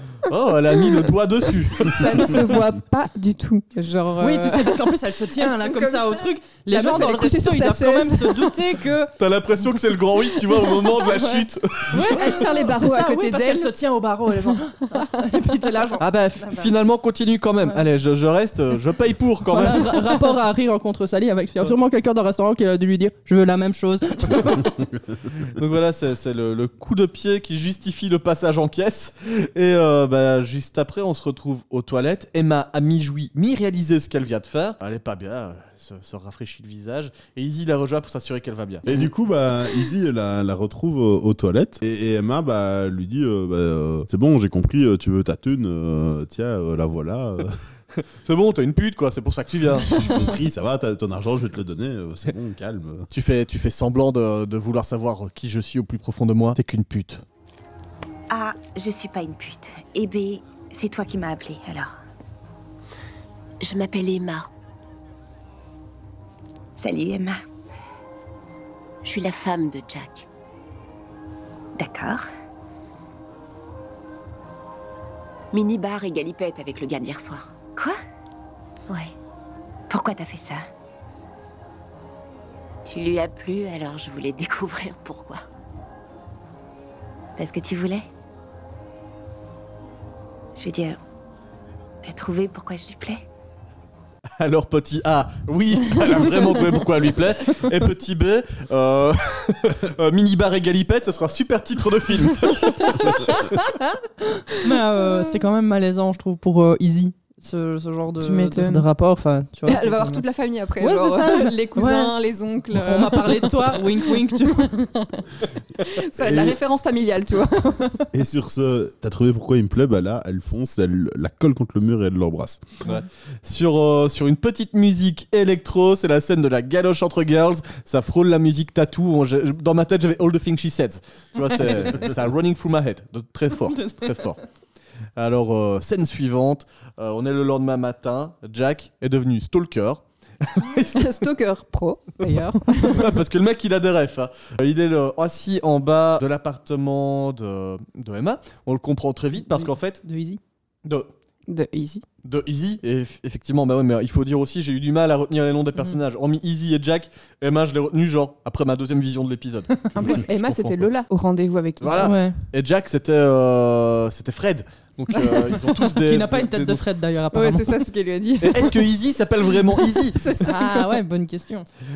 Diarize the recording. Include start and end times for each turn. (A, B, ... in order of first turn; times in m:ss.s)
0:00.2-0:02.5 A
0:01.8-0:08.8 B
0:04.2-0:09.1 C
0:09.2-0:12.5 A
0:10.6-0:16.7 C
0:11.9-0:13.8 B
0:14.4-0:15.1 B
0:16.0-0:20.3 A
0:19.5-0:24.8 C
0:25.5-0:39.1 A
0:38.9-0:47.6 D
0:48.2-0:50.3 A
0:49.8-0:53.1 D
0:53.1-0:57.2 A
0:58.3-1:01.9 E
1:03.6-1:04.5 F
1:06.8-1:07.4 E
1:09.0-1:10.3 F
1:11.8-1:12.3 E
1:15.5-1:17.6 F
1:19.9-1:20.7 E
1:22.8-1:25.4 F
1:27.4-1:28.0 E
1:30.6-1:31.0 E
1:32.0-1:33.2 E
1:34.4-1:43.7 A
1:44.5-1:50.2 C
1:48.2-1:48.9 B
1:49.7-1:55.2 B
1:50.8-1:52.2 C
1:52.7-1:54.7 C
1:55.8-1:58.1 B
1:56.2-1:56.6 D
1:58.1-2:02.7 D
2:02.8-2:14.4 A
2:13.6-2:14.3 C
2:15.2-2:21.2 A
2:21.0-2:23.2 B
2:22.8-2:30.0 A
2:29.4-2:30.4 C
2:30.8-2:31.1 A
2:31.5-2:32.0 B
2:32.2-2:40.9 A
2:39.9-2:42.1 B
2:41.8-2:46.8 A
2:42.0-2:42.4 C
2:46.0-2:47.8 C
2:47.3-2:48.8 B
2:48.4-2:50.4 A
2:49.9-2:50.9 B
2:50.4-2:51.7 C